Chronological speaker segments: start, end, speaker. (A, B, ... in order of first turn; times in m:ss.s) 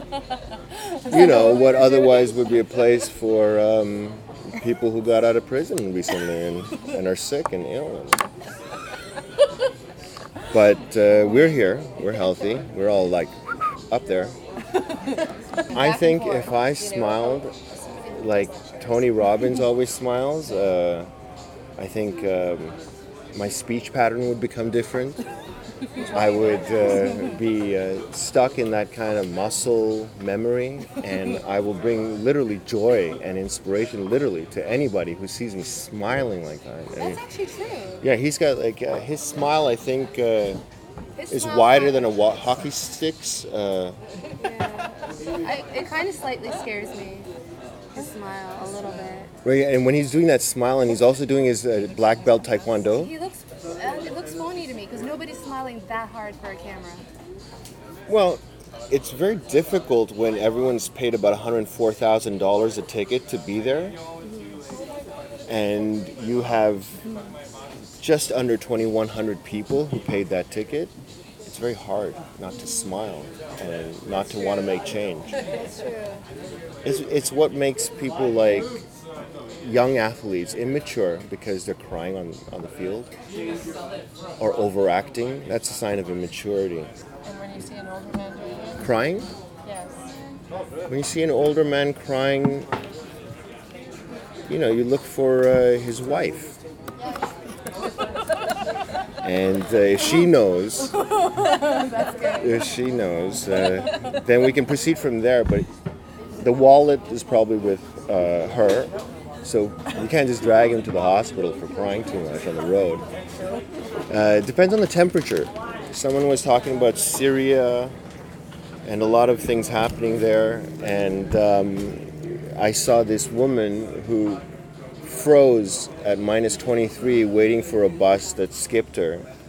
0:01.0-0:08.2 A
0:10.5-0:13.4 A
0:13.9-0:14.4 A
0:15.7-0:16.1 B
0:15.7-0:17.5 A
0:15.8-0:18.6 C
0:18.1-0:21.1 A
0:21.8-0:22.8 A
0:23.3-0:25.2 A
0:26.0-0:27.3 B
0:26.1-0:37.2 A
0:36.9-0:38.1 B
0:38.0-0:40.6 A
0:41.2-0:42.2 B
0:41.3-0:44.0 A
0:44.4-0:47.3 B
0:47.9-0:49.3 B
0:49.4-0:53.1 A
0:52.9-0:57.0 B
0:58.1-1:04.0 A
1:04.2-1:04.6 B
1:05.5-1:07.0 A
1:08.0-1:10.9 A
1:11.4-1:15.4 A
1:14.3-1:16.2 B
1:16.8-1:18.8 A
1:19.6-1:23.1 A
1:24.4-1:26.9 A
1:27.2-1:28.9 C
1:28.8-1:29.3 A
1:29.6-1:30.0 C
1:30.9-1:32.7 A
1:34.5-1:36.6 A
1:39.2-1:41.0 A
1:41.2-1:42.6 B
1:42.3-1:45.7 A
1:46.4-1:53.0 A
1:54.1-1:57.9 A
1:58.8-2:04.4 A
2:05.0-2:09.3 A